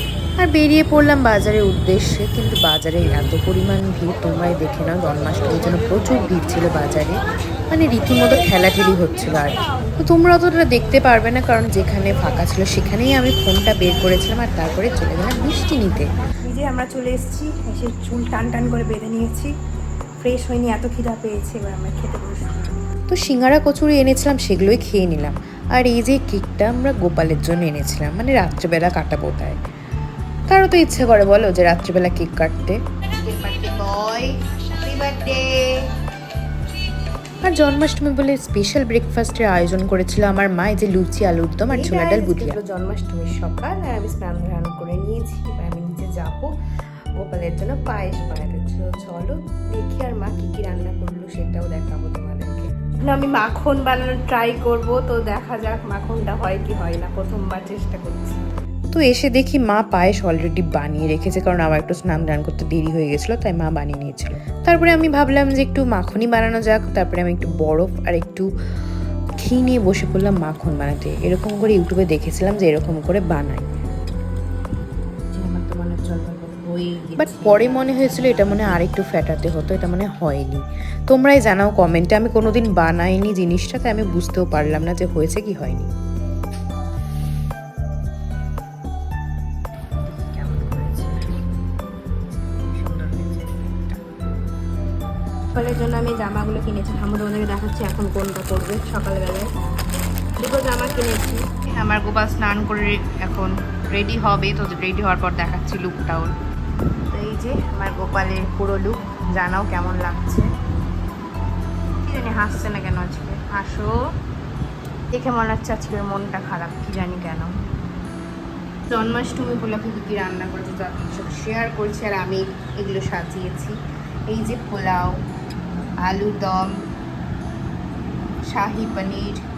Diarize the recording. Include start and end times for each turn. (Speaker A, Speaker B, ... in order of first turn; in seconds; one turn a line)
Speaker A: 0.4-7.2
Speaker A: 7.7-16.1
Speaker B: 16.5-19.5
Speaker B: 20.2-22.7
Speaker A: 23.1-29.6
Speaker A: 30.5-32.8
Speaker B: 33.2-35.6
Speaker A: 37.4-42.6
Speaker B: 41.7-46.5
Speaker B: 47.2-58.5
Speaker A: 58.9-68.5
Speaker A: 69.4-73.7
Speaker B: 75.3-78.8
Speaker A: 77.2-85.9
Speaker B: 90.1-91.4
Speaker B: 92.2-94.0
Speaker B: 95.6-99.5
Speaker B: 100.4-106.3
Speaker B: 107.1-110.5
Speaker B: 112.0-114.0
Speaker B: 115.1-117.5
Speaker B: 118.9-123.8
Speaker B: 124.3-125.2
Speaker B: 126.0-126.7
Speaker B: 128.5-129.4